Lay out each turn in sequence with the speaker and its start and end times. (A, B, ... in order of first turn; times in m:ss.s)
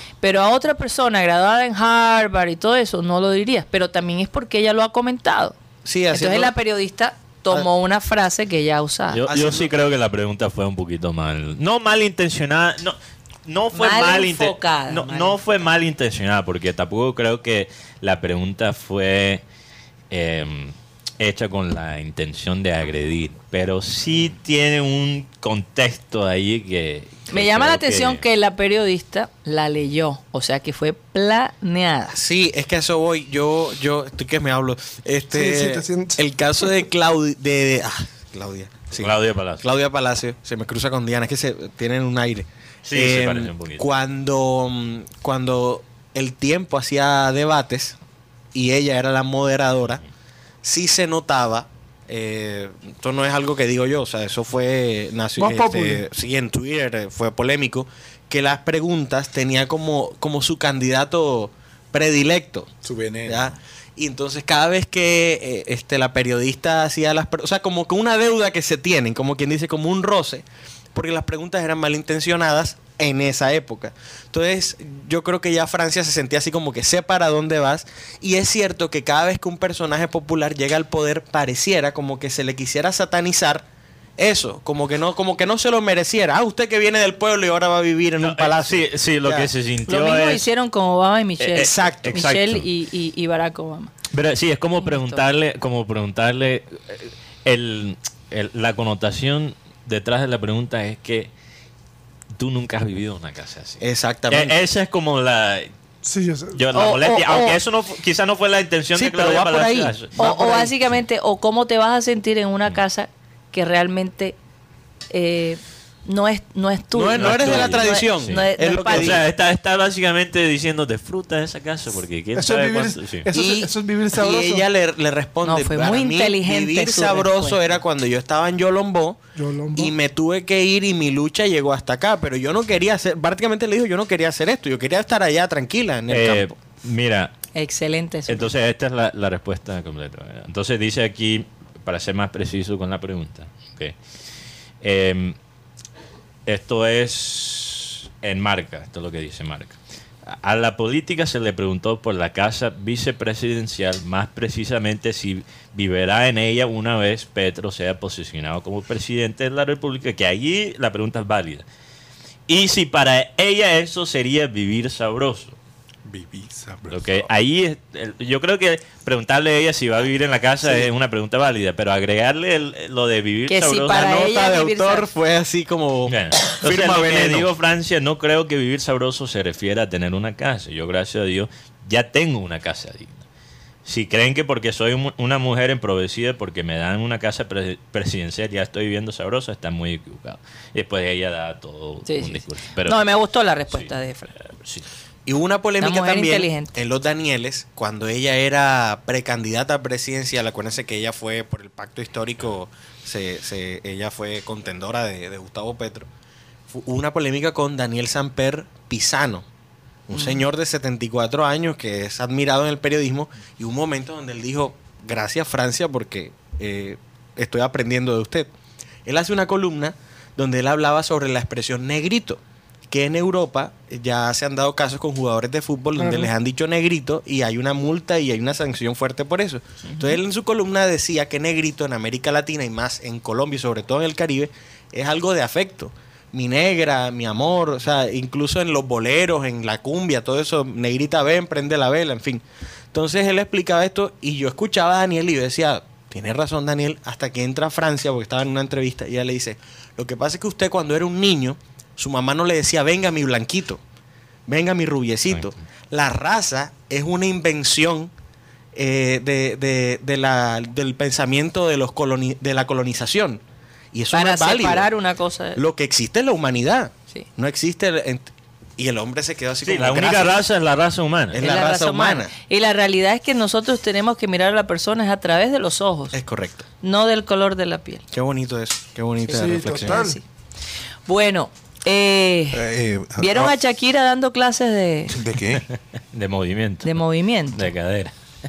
0:00.2-0:05.6 A
0:05.8-0:06.5 B
0:06.1-0:09.2 A
0:09.1-0:19.4 C
0:09.3-0:09.7 B
0:13.7-0:15.4 A
0:20.1-0:28.2 C
0:27.3-0:32.2 A
0:32.1-0:48.0 B
0:35.3-0:36.2 D
0:38.9-0:39.6 C
0:42.8-0:43.8 C
0:48.5-0:50.0 B
0:50.6-1:02.7 B
0:55.4-0:56.0 D
1:02.8-1:03.5 E
1:03.2-1:23.6 B
1:24.2-1:29.5 B
1:28.2-1:30.5 C
1:29.9-1:33.9 A
1:31.4-1:32.6 C
1:31.6-1:32.2 B
1:34.1-1:41.3 C
1:34.8-1:35.2 A
1:42.4-1:45.7 C
1:43.8-1:44.5 B
1:46.0-1:46.6 D
1:46.5-1:50.1 C
1:46.7-1:47.6 A
1:48.9-1:50.7 B
1:50.2-1:54.4 A
1:55.1-1:59.2 A
1:56.9-1:59.2 B
1:57.1-2:03.3 C
2:02.3-2:04.6 D
2:03.3-2:16.5 B
2:05.4-2:07.8 A
2:09.3-2:09.9 D
2:16.1-2:17.3 C
2:17.5-2:18.5 A
2:18.3-2:23.9 C
2:24.8-2:25.4 C
2:26.4-2:41.6 C
2:42.5-2:45.5 C
2:46.0-2:47.2 E
2:46.9-2:54.1 C
2:50.6-2:50.9 B
2:53.5-2:55.1 A
2:53.9-2:57.5 B
2:56.1-3:03.2 C
3:03.8-3:13.0 C
3:12.0-3:14.3 A
3:14.6-3:14.8 C
3:15.2-3:26.1 B
3:15.8-3:16.7 A
3:26.7-3:29.4 B
3:30.1-3:38.5 B
3:30.1-3:30.4 A
3:39.0-4:13.8 B
3:46.0-3:46.3 D
3:49.8-3:50.2 A
4:14.5-4:18.1 B
4:18.7-4:23.4 B
4:23.9-4:24.9 B
4:24.1-4:25.6 A
4:25.6-4:30.4 B
4:29.6-4:31.4 C
4:31.3-4:32.3 B
4:31.4-4:36.2 A
4:36.1-4:36.7 B
4:36.8-4:38.0 A
4:38.1-4:40.1 B
4:39.3-4:40.2 D
4:39.3-4:40.2 A
4:41.1-4:42.6 A
4:42.5-4:43.6 E
4:43.2-4:45.2 A
4:45.1-4:45.6 E
4:46.1-4:47.0 C
4:46.8-4:47.7 A
4:47.5-4:48.1 C